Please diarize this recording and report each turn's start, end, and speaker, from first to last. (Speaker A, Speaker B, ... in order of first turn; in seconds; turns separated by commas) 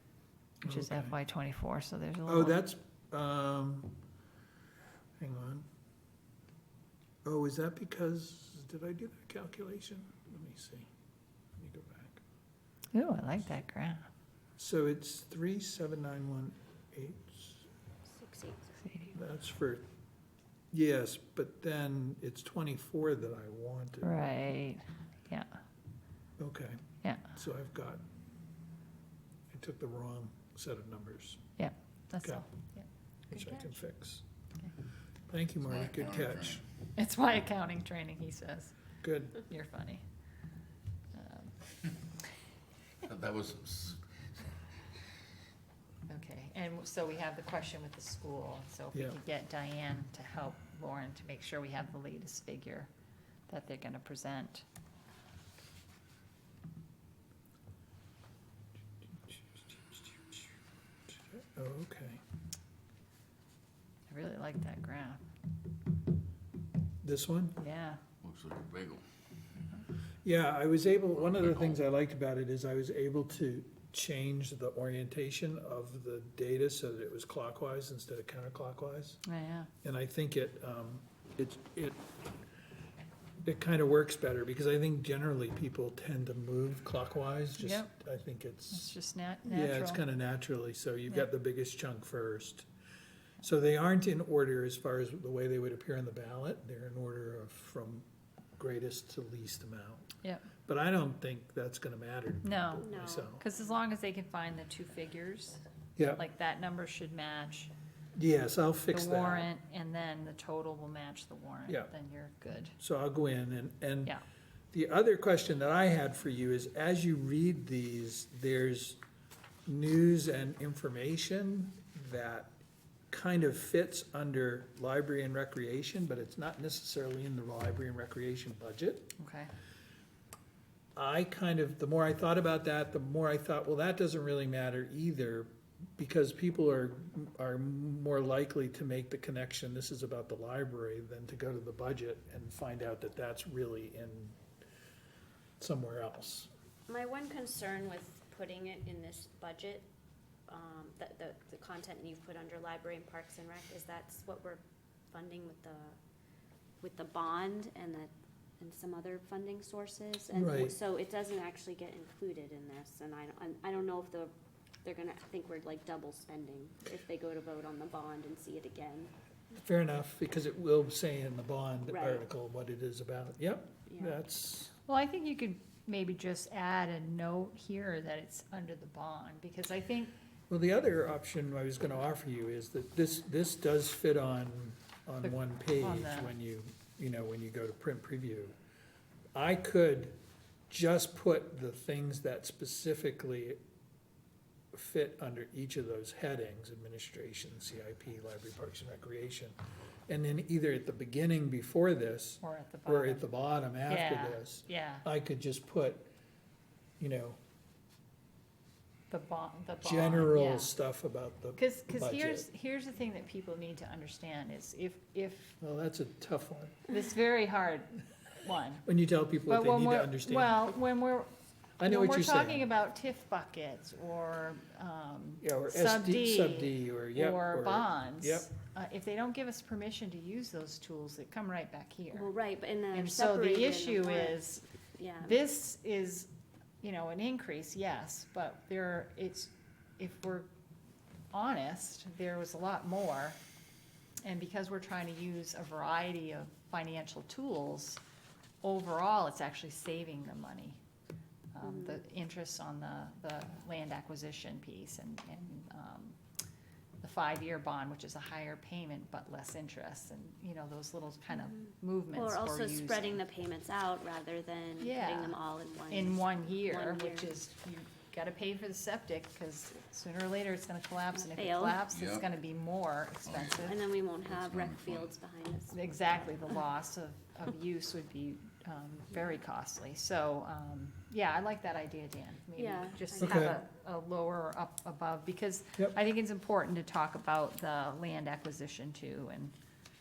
Speaker A: 0.6-1.1, Speaker B: 0.7-2.6, Speaker A: 2.3-4.0, Speaker A: 5.2-5.7, Speaker A: 7.2-10.9, Speaker A: 11.6-12.2, Speaker B: 12.9-14.1, Speaker A: 14.6-17.7, Speaker C: 18.1-18.8, Speaker A: 19.1-19.9, Speaker A: 20.7-24.3, Speaker B: 24.0-25.6, Speaker A: 26.4-28.0, Speaker B: 27.0-27.3, Speaker A: 29.5-31.4, Speaker B: 31.6-32.9, Speaker A: 33.3-34.2, Speaker C: 33.3-33.6, Speaker A: 35.3-36.6, Speaker D: 35.6-36.6, Speaker B: 37.0-38.8, Speaker A: 39.0-39.4, Speaker B: 39.4-40.0, Speaker B: 41.1-41.5, Speaker D: 43.0-44.0, Speaker B: 46.1-52.9, Speaker B: 53.5-54.6, Speaker A: 61.3-62.2, Speaker B: 64.1-65.2, Speaker A: 67.0-67.6, Speaker B: 67.6-68.0, Speaker D: 68.2-69.0, Speaker A: 70.2-79.2, Speaker D: 71.2-71.8, Speaker B: 79.3-79.7, Speaker A: 79.8-82.0, Speaker A: 83.5-88.9, Speaker B: 87.6-87.9, Speaker B: 88.7-90.0, Speaker A: 89.5-92.7, Speaker A: 93.4-98.1, Speaker A: 98.6-100.1, Speaker B: 100.2-100.5, Speaker A: 100.7-103.4, Speaker B: 102.4-105.6, Speaker C: 102.8-103.4, Speaker A: 106.0-106.2, Speaker B: 106.2-107.7, Speaker A: 108.2-109.5, Speaker B: 108.9-112.8, Speaker A: 112.8-114.2, Speaker A: 114.7-119.0, Speaker A: 119.7-122.5, Speaker A: 123.1-129.1, Speaker B: 129.2-129.5, Speaker A: 131.0-144.4, Speaker A: 145.6-146.5, Speaker C: 146.9-149.9, Speaker C: 150.5-154.6, Speaker C: 155.1-156.0, Speaker C: 156.8-164.3, Speaker A: 160.3-160.7, Speaker C: 164.8-169.1, Speaker A: 169.5-174.8, Speaker C: 171.9-172.2, Speaker C: 173.9-174.2, Speaker B: 174.8-180.1, Speaker A: 180.5-188.6, Speaker B: 185.2-186.3, Speaker A: 189.3-190.2, Speaker A: 190.7-193.6, Speaker A: 194.7-199.6, Speaker A: 200.1-206.1, Speaker B: 202.4-203.3, Speaker B: 203.9-205.1, Speaker A: 207.0-207.4, Speaker B: 209.1-210.7, Speaker A: 209.8-212.5, Speaker B: 211.6-215.6, Speaker A: 215.6-216.9, Speaker B: 216.9-218.8, Speaker A: 218.8-220.8, Speaker B: 219.5-221.3, Speaker A: 221.8-222.7, Speaker B: 221.8-232.3, Speaker A: 225.4-228.5, Speaker C: 232.1-234.4, Speaker B: 232.9-234.7, Speaker C: 235.0-235.4, Speaker B: 235.2-236.3, Speaker B: 236.8-240.5, Speaker B: 241.3-243.4, Speaker B: 244.2-248.0, Speaker B: 248.6-250.8, Speaker B: 251.5-256.2, Speaker C: 251.6-252.0, Speaker B: 257.0-263.2, Speaker C: 261.4-267.3, Speaker B: 264.8-265.4, Speaker B: 265.9-273.8, Speaker C: 271.1-271.8, Speaker D: 271.9-272.3, Speaker D: 273.3-273.7, Speaker C: 273.7-275.8, Speaker D: 274.2-275.1, Speaker B: 275.7-289.5, Speaker C: 282.6-283.6, Speaker A: 283.2-283.6